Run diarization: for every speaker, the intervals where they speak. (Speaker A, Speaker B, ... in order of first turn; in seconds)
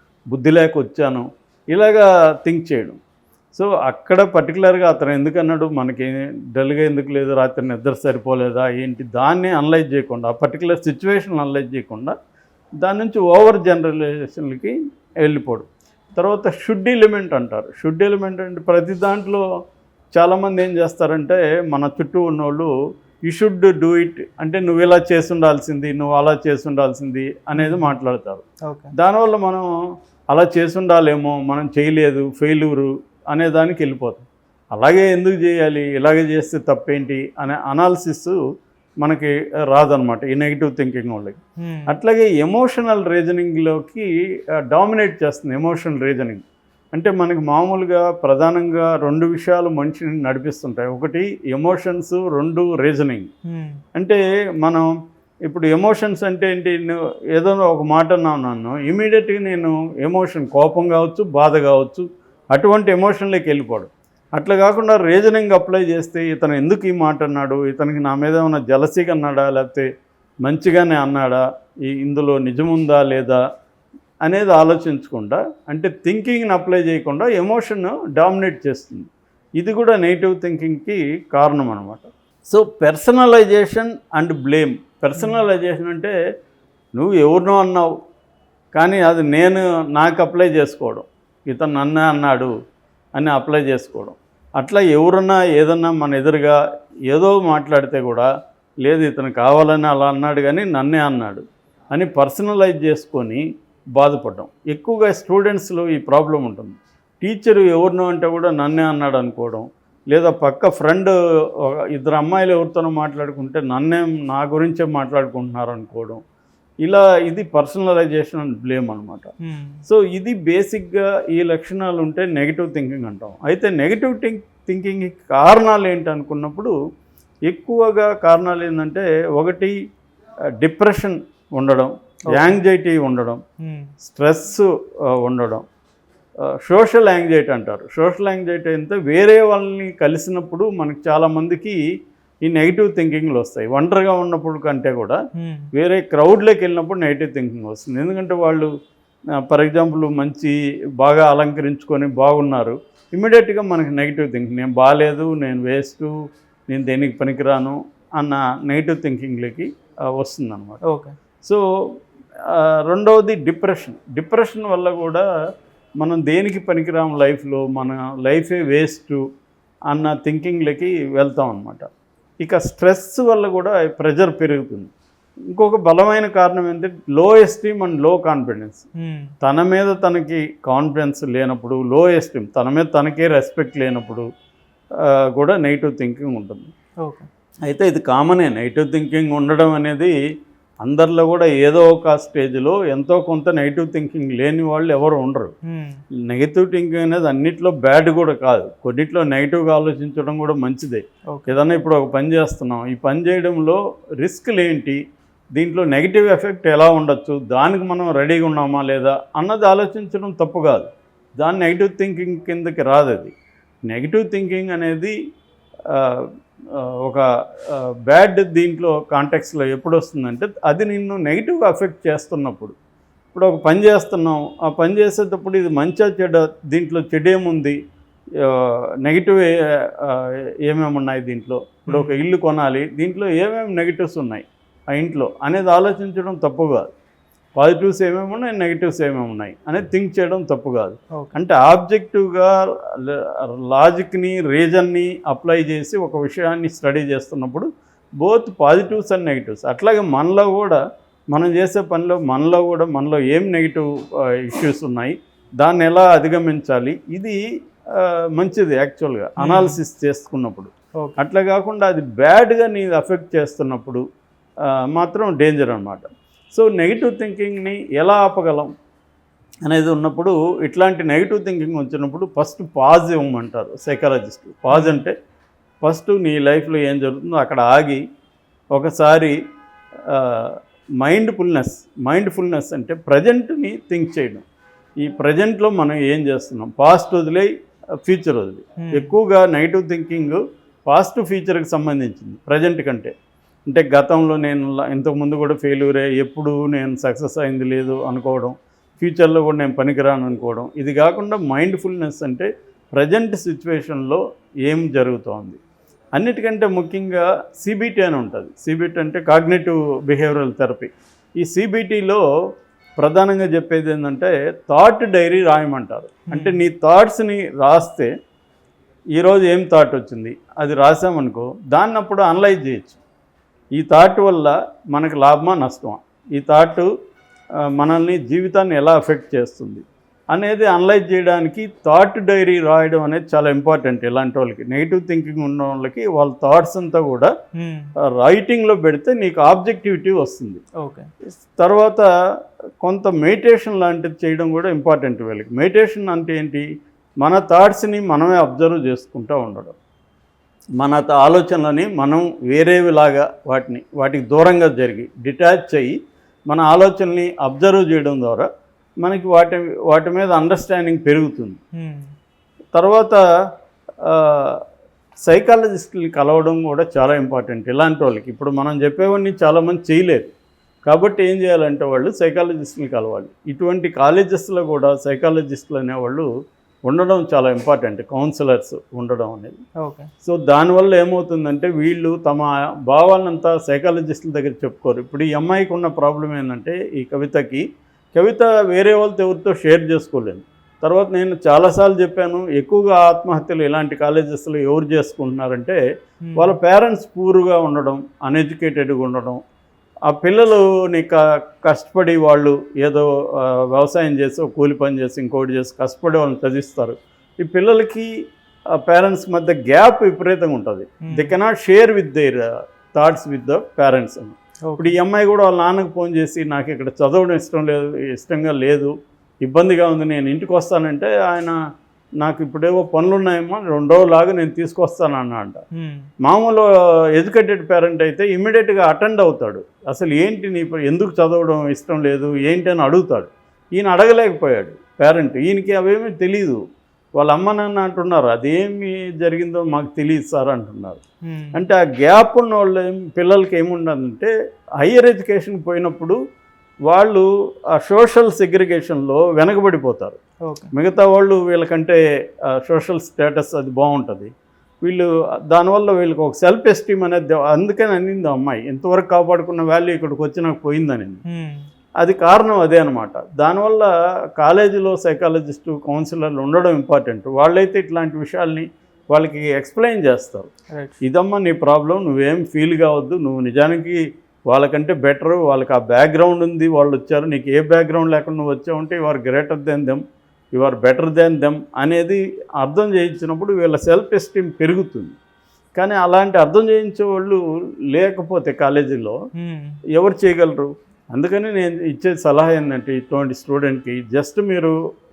Speaker A: 0.3-3.0, 3.5-12.1, 12.8-19.4, 20.1-22.7, 23.3-28.4, 28.9-29.6, 30.3-38.4, 39.0-44.0, 44.7-46.4, 46.9-53.3, 53.9-54.9, 55.5-69.9, 70.4-73.4, 74.2-79.1, 79.6-86.1, 87.0-87.9, 88.7-92.5, 93.2-96.6, 97.1-98.3, 98.8-103.4, 104.0-116.2, 116.8-119.3, 119.8-126.7, 127.5-129.7, 130.6-133.4, 134.0-135.6, 136.6-141.8, 142.4-145.2, 145.7-148.7, 149.4-156.1, 156.7-160.8, 162.5-165.2, 166.0-169.2, 169.9-171.9, 172.4-174.9, 175.5-178.8, 179.4-184.2, 185.0-186.7, 187.7-190.2, 190.8-195.5, 196.3-205.0, 205.6-210.9, 211.4-213.3, 213.9-215.1, 215.9-216.2, 216.8-222.7, 223.3-227.8, 228.4-236.9, 237.6-247.7, 248.2-250.8, 251.3-253.9, 254.4-257.4, 258.0-264.0, 264.9-268.7, 269.6-275.1, 275.8-278.0, 278.7-279.3, 280.1-284.4, 285.0-287.5, 288.0-293.1, 293.7-305.6, 306.1-312.2, 313.0-318.1, 319.2-323.0, 323.8-326.9, 327.7-337.3, 338.2-340.6, 341.4-342.1, 342.8-346.6, 347.2-349.8, 350.8-355.9, 356.5-358.5, 359.0-361.6, 362.7-363.2, 364.1-364.6, 365.3-370.3, 370.9-376.3, 376.9-379.6, 380.2-395.8, 396.4-399.4, 400.1-408.1, 408.8-418.9, 419.4-421.6, 422.2-425.6, 426.2-436.6, 437.2-441.0, 441.5-446.2, 446.9-450.2, 450.7-452.0, 452.6-454.3, 454.8-461.2, 462.0-470.5, 471.0-480.0, 480.5-485.1, 485.8-489.2, 489.9-494.8
Speaker B: 27.6-27.9, 28.6-28.9, 41.6-41.9, 53.5-53.8, 85.2-85.4, 119.4-119.8, 132.3-132.6, 133.6-133.9, 145.3-145.7, 160.9-161.1, 179.0-179.3, 195.7-196.0, 231.9-232.2, 259.4-259.8, 274.7-275.0, 288.8-289.1, 316.3-316.6, 337.6-337.9, 340.8-341.1, 361.8-362.1, 379.8-380.1, 396.2-396.6, 414.7-414.9, 425.7-426.1, 441.3-441.6, 461.3-461.6, 489.4-489.8